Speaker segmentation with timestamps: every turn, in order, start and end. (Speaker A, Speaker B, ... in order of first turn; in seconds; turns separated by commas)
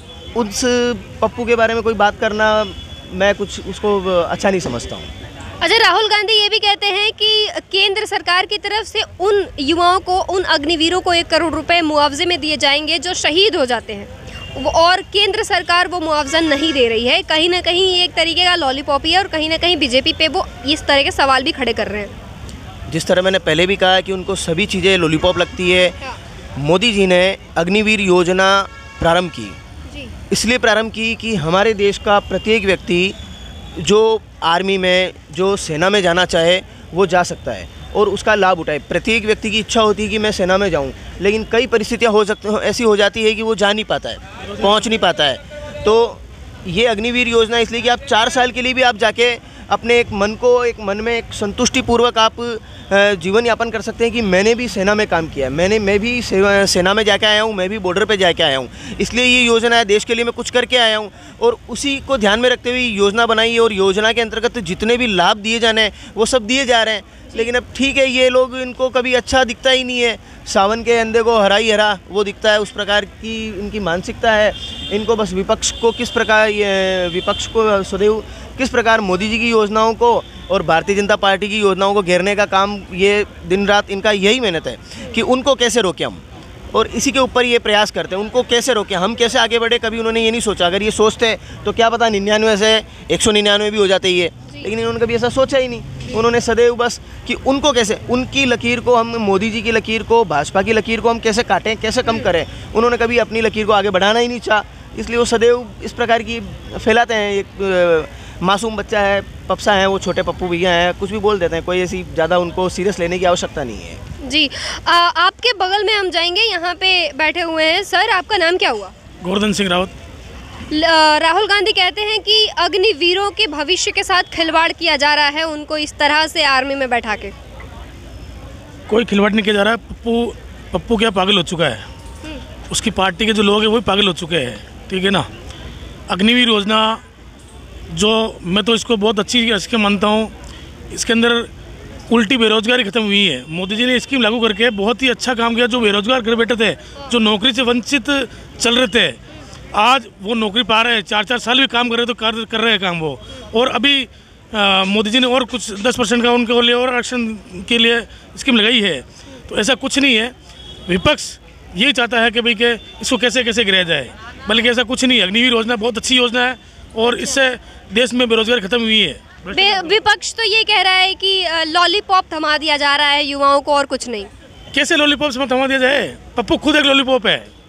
Speaker A: 0.3-5.1, Speaker B: 5.6-22.1, Speaker A: 22.9-25.9, Speaker A: 26.6-29.6, Speaker A: 30.3-33.1, Speaker A: 33.8-86.2, Speaker A: 86.7-114.0, Speaker B: 114.2-118.9, Speaker C: 119.2-119.9, Speaker B: 120.7-127.3, Speaker C: 128.9-131.8, Speaker C: 132.7-135.3, Speaker C: 136.1-137.0, Speaker C: 137.9-140.3, Speaker C: 140.9-141.5, Speaker C: 142.1-149.2, Speaker C: 149.7-160.3, Speaker C: 160.9-169.9, Speaker B: 169.5-174.3, Speaker C: 174.7-177.5